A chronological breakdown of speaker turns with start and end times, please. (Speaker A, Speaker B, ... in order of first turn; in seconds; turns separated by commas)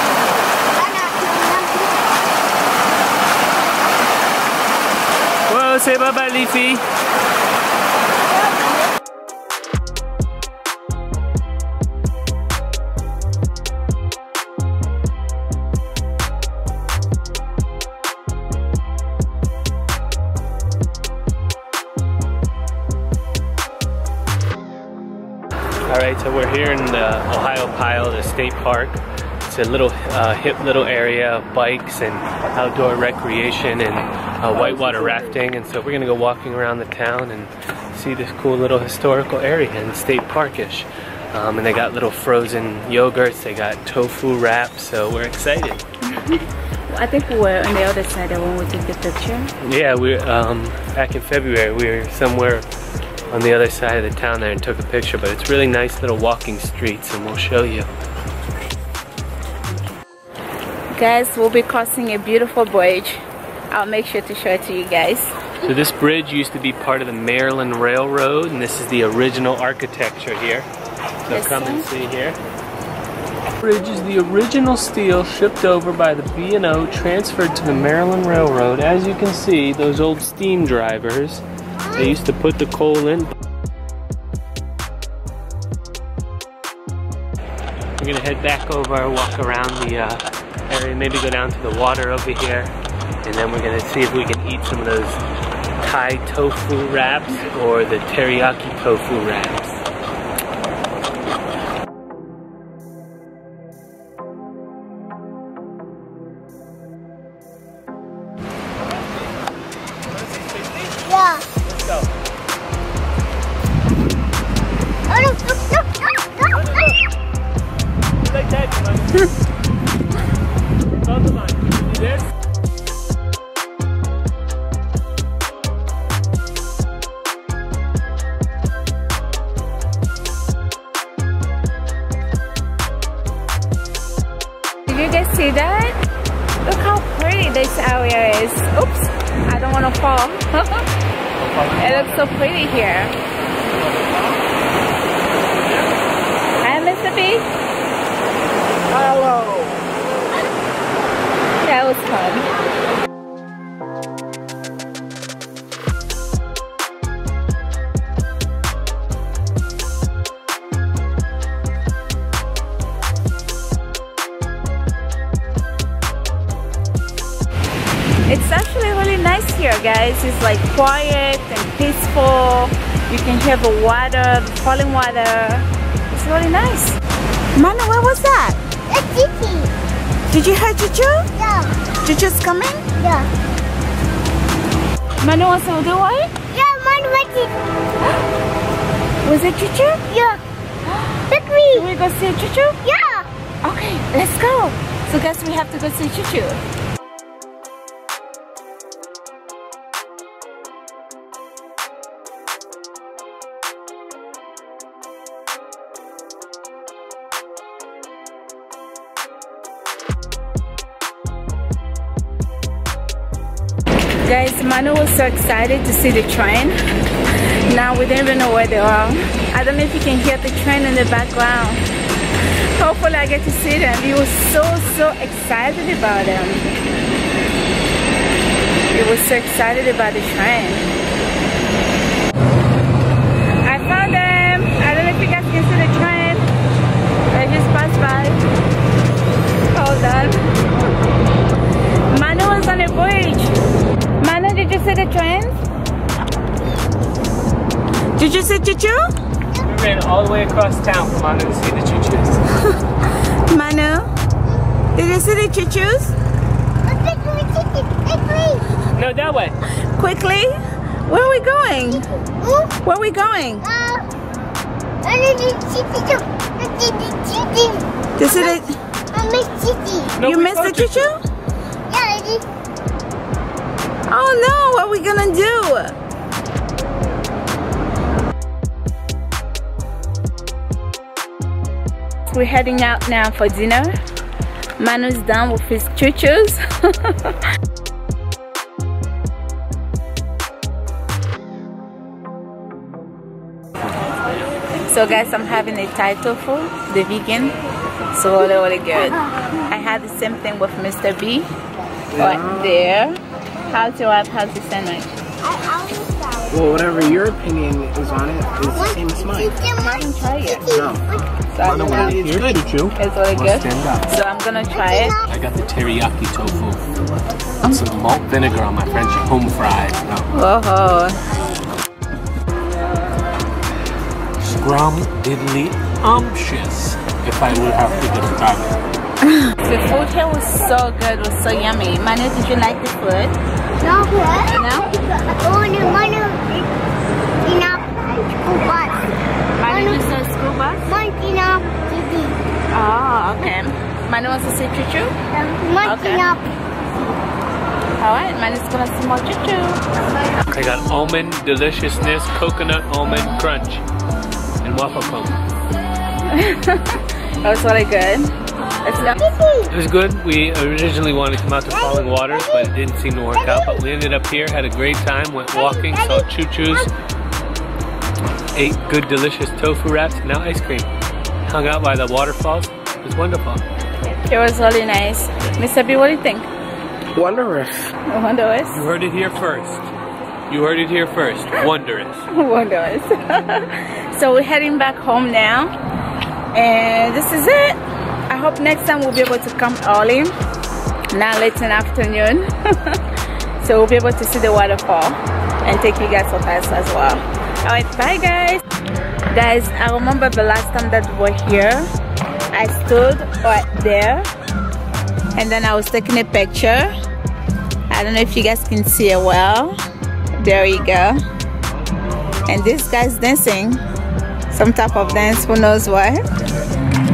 Speaker A: 0.8-1.9, Speaker B: 5.5-6.8, Speaker B: 25.8-45.8, Speaker C: 46.1-49.5, Speaker B: 49.6-52.6, Speaker B: 53.3-57.9, Speaker C: 60.9-65.3, Speaker B: 65.6-70.7, Speaker B: 71.3-72.4, Speaker C: 71.3-71.8, Speaker B: 73.6-83.3, Speaker B: 88.0-95.2, Speaker B: 95.8-99.8, Speaker B: 110.2-110.9, Speaker A: 111.0-111.5, Speaker B: 111.6-112.1, Speaker A: 115.1-116.6, Speaker B: 116.5-117.0, Speaker B: 118.2-119.2, Speaker B: 121.0-122.2, Speaker C: 134.8-136.0, Speaker C: 136.6-140.9, Speaker B: 141.4-142.2, Speaker C: 141.7-143.1, Speaker C: 146.6-147.5, Speaker D: 149.0-149.8, Speaker C: 151.6-152.5, Speaker C: 168.2-177.0, Speaker C: 177.5-178.6, Speaker A: 178.9-179.7, Speaker C: 180.3-181.3, Speaker A: 181.3-181.8, Speaker C: 182.0-182.8, Speaker A: 183.0-183.3, Speaker C: 185.2-186.3, Speaker A: 186.5-187.5, Speaker C: 189.2-190.1, Speaker A: 190.1-190.4, Speaker A: 191.3-191.8, Speaker C: 191.7-192.8, Speaker A: 192.8-193.3, Speaker C: 193.6-196.6, Speaker C: 214.2-216.8, Speaker C: 217.7-221.8, Speaker C: 222.8-226.7, Speaker C: 228.9-230.9, Speaker C: 233.6-236.5, Speaker C: 237.3-238.4, Speaker C: 239.7-240.5, Speaker C: 242.1-243.6, Speaker C: 244.2-245.6, Speaker C: 248.2-249.1, Speaker B: 249.6-252.4, Speaker C: 253.0-254.1, Speaker C: 254.9-256.1, Speaker A: 256.8-258.7, Speaker B: 258.9-259.6, Speaker C: 259.9-262.1, Speaker A: 262.4-262.8, Speaker C: 262.8-263.6, Speaker A: 263.6-264.1, Speaker A: 265.0-268.6, Speaker C: 268.2-268.8, Speaker A: 269.1-270.1, Speaker B: 270.1-271.1, Speaker C: 270.2-271.2, Speaker A: 271.9-272.4, Speaker C: 274.1-275.9, Speaker C: 282.2-283.9, Speaker C: 284.8-287.3, Speaker C: 294.9-297.5, Speaker C: 298.1-301.5, Speaker D: 302.1-302.9, Speaker C: 302.2-305.1, Speaker A: 305.4-306.6, Speaker D: 306.5-309.6, Speaker A: 308.7-311.3, Speaker C: 309.7-310.7, Speaker D: 310.7-311.0, Speaker C: 311.5-312.2, Speaker B: 311.6-314.1, Speaker D: 311.8-312.7, Speaker C: 312.9-315.2, Speaker A: 314.8-315.2, Speaker B: 315.3-316.8, Speaker B: 317.6-320.3, Speaker C: 320.3-321.2, Speaker B: 324.4-328.7, Speaker C: 329.4-333.4, Speaker A: 333.8-334.6, Speaker C: 334.5-334.9, Speaker A: 335.3-336.7, Speaker A: 337.4-339.1, Speaker C: 339.6-340.9, Speaker A: 339.6-340.0, Speaker A: 340.8-342.4, Speaker C: 342.7-345.1, Speaker A: 345.3-346.4, Speaker C: 345.8-346.2, Speaker C: 348.0-349.8, Speaker B: 350.5-353.8, Speaker B: 354.6-355.4, Speaker C: 356.3-359.2, Speaker A: 359.1-359.7, Speaker B: 359.7-366.9, Speaker A: 361.7-362.7, Speaker A: 363.4-363.8, Speaker A: 365.5-366.9, Speaker B: 368.5-370.9, Speaker B: 371.4-373.6, Speaker C: 374.2-376.5, Speaker D: 377.1-377.9, Speaker C: 378.1-378.8, Speaker B: 378.7-379.9, Speaker B: 380.5-382.3, Speaker C: 382.3-385.7, Speaker C: 386.5-390.3, Speaker C: 391.1-393.0, Speaker C: 393.6-398.6, Speaker C: 399.3-401.9, Speaker C: 402.5-404.3, Speaker C: 405.3-406.9, Speaker C: 407.9-409.8, Speaker C: 410.4-411.2, Speaker C: 412.4-413.8, Speaker C: 414.5-416.2